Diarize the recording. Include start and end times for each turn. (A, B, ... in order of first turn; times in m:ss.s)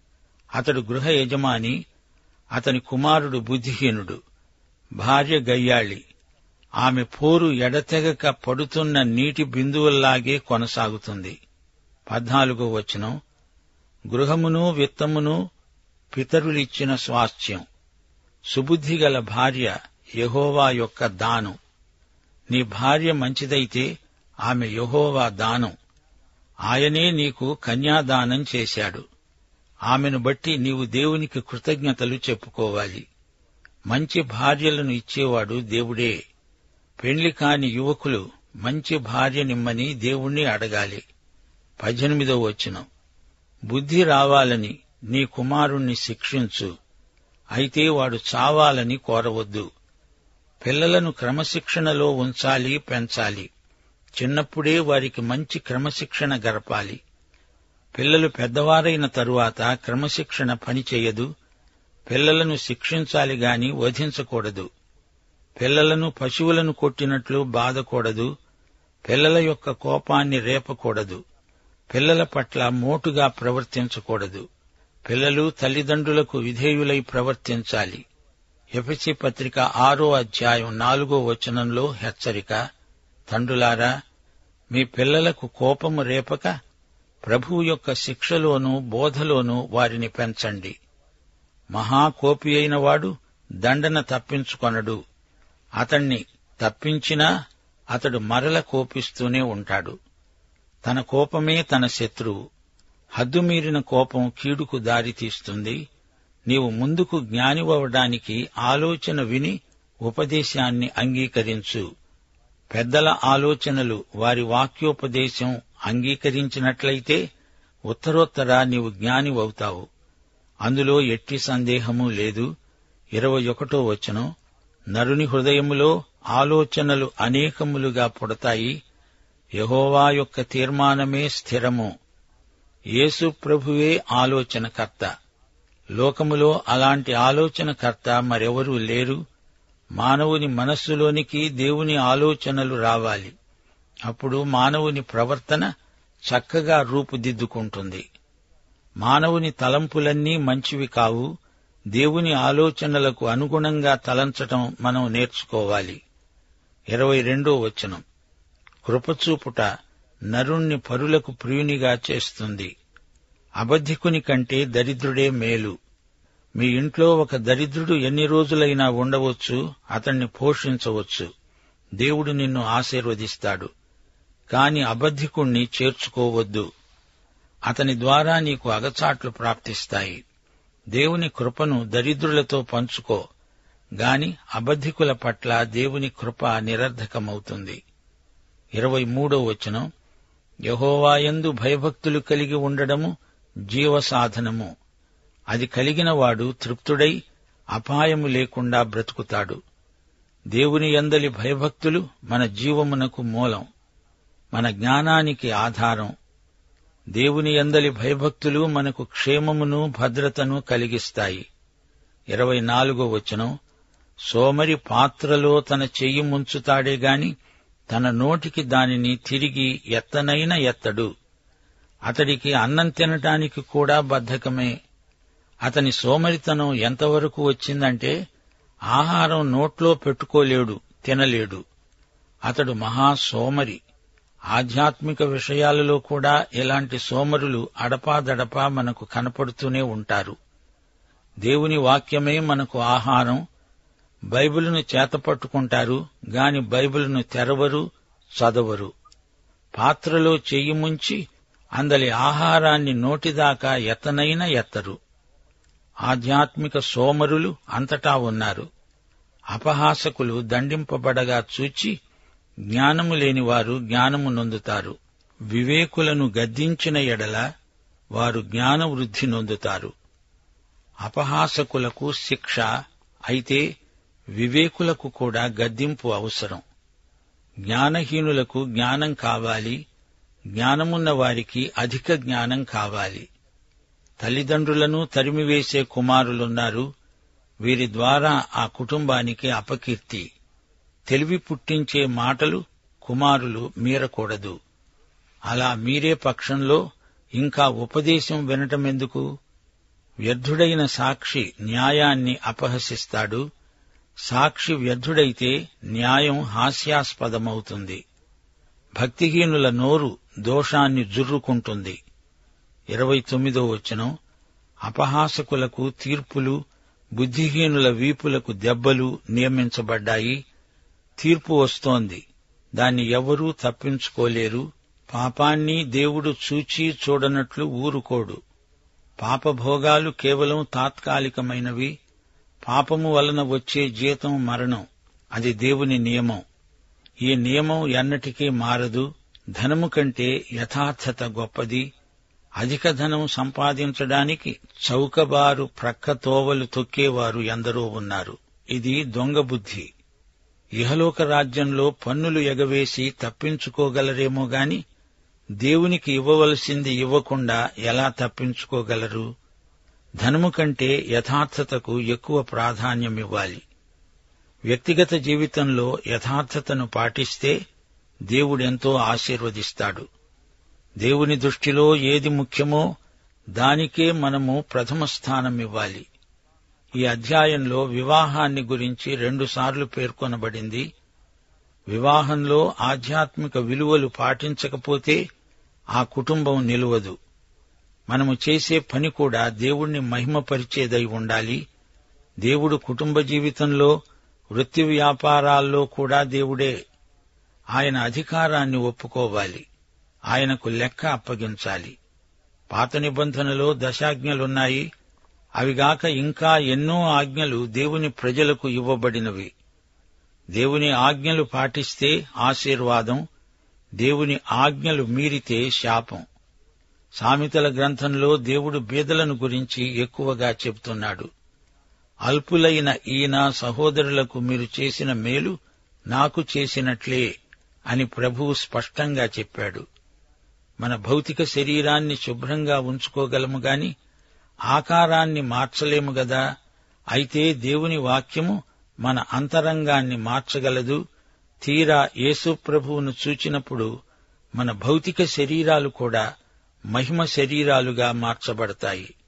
0:00.6-0:01.8 A
0:02.6-0:04.2 A
0:05.0-0:06.0 A
0:06.8-0:11.3 A
0:12.1-0:13.1 A
0:14.1-0:15.4 A
0:16.1-0:17.6 A
0:18.5-0:21.5 A
0:22.5-0:23.9 A
0:24.5-0:25.7 A
0:26.7-0:29.0 A
0:29.9-0:33.0 A
0:33.9-0:36.1 A
0:37.0-0:41.0 A
0:41.8-0:42.8 A
0:43.7-0:46.7 A
0:47.6-0:49.6 A
0:50.6-0:53.5 A
0:54.2-0:57.0 A
0:57.9-1:01.3 A
1:02.1-1:04.7 A
1:05.6-1:08.3 A
1:09.0-1:11.2 A
1:11.9-1:14.4 A
1:15.0-1:18.0 A
1:18.8-1:22.6 A
1:23.3-1:23.9 A
1:24.7-1:26.5 A
1:27.2-1:30.7 A
1:31.7-1:35.0 A
1:35.8-1:37.3 A
1:37.9-1:39.9 A
1:40.8-1:42.4 A
1:43.2-1:45.8 A
1:46.5-1:51.8 A
1:52.7-1:57.2 A
1:57.9-1:59.9 A
2:00.6-2:02.5 A
2:03.2-2:04.3 A
2:04.9-2:08.7 A
2:09.6-2:11.9 A
2:13.0-2:15.1 A
2:16.0-2:19.2 A
2:20.0-2:23.3 A
2:24.1-2:25.7 A
2:26.3-2:28.0 A
2:29.0-2:31.3 A
2:31.9-2:36.0 A
2:36.9-2:38.0 A
2:38.8-2:39.6 A
2:40.3-2:42.7 A
2:43.6-2:45.7 A
2:46.6-2:51.3 A
2:52.0-2:53.7 A
2:54.5-2:56.6 A
2:57.7-3:00.2 A
3:00.9-3:03.2 A
3:04.0-3:07.8 A
3:08.8-3:09.8 A
3:10.7-3:13.1 A
3:13.7-3:14.7 A
3:15.5-3:17.2 A
3:17.7-3:19.6 A
3:20.5-3:23.6 A
3:24.5-3:26.1 A
3:27.2-3:31.4 A
3:32.3-3:33.5 A
3:34.3-3:37.3 A
3:37.9-3:41.1 A
3:42.1-3:44.7 A
3:45.6-3:48.1 A
3:48.9-3:51.6 A
3:52.5-3:53.8 A
3:54.5-4:00.3 A
4:01.4-4:03.4 A
4:04.3-4:07.8 A
4:08.4-4:08.9 A
4:09.8-4:11.2 A
4:11.8-4:15.0 A
4:16.1-4:18.7 A
4:19.5-4:21.9 A
4:22.7-4:25.0 A
4:25.5-4:27.4 A
4:28.2-4:29.9 A
4:31.0-4:32.7 A
4:33.3-4:33.6 A
4:34.4-4:36.6 A
4:37.7-4:39.8 A
4:40.6-4:43.2 A
4:44.2-4:46.9 A
4:47.6-4:50.2 A
4:51.1-4:54.6 A
4:55.5-4:56.8 A
4:57.4-4:59.2 A
5:00.3-5:03.4 A
5:04.3-5:08.0 A
5:09.0-5:12.0 A
5:12.9-5:14.1 A
5:14.9-5:16.6 A
5:17.2-5:20.4 A
5:21.2-5:22.2 A
5:22.8-5:28.4 A
5:29.2-5:31.9 A
5:32.6-5:34.8 A
5:35.3-5:36.4 A
5:37.2-5:41.8 A
5:42.6-5:49.9 A
5:50.8-5:54.8 A
5:55.6-5:59.3 A
6:00.2-6:03.6 A
6:04.7-6:07.5 A
6:08.3-6:10.0 A
6:11.0-6:12.8 A
6:13.6-6:16.0 A
6:17.0-6:20.8 A
6:21.9-6:25.2 A
6:26.0-6:27.1 A
6:28.1-6:31.6 A
6:32.4-6:33.9 A
6:34.5-6:36.7 A
6:37.7-6:39.6 A
6:40.3-6:41.9 A
6:42.7-6:44.8 A
6:45.6-6:49.5 A
6:50.6-6:53.2 A
6:54.0-6:56.2 A
6:57.2-7:01.3 A
7:02.3-7:05.5 A
7:06.1-7:07.3 A
7:07.9-7:09.8 A
7:10.8-7:13.9 A
7:14.7-7:16.4 A
7:17.1-7:21.0 A
7:21.6-7:23.9 A
7:24.6-7:26.2 A
7:26.9-7:29.1 A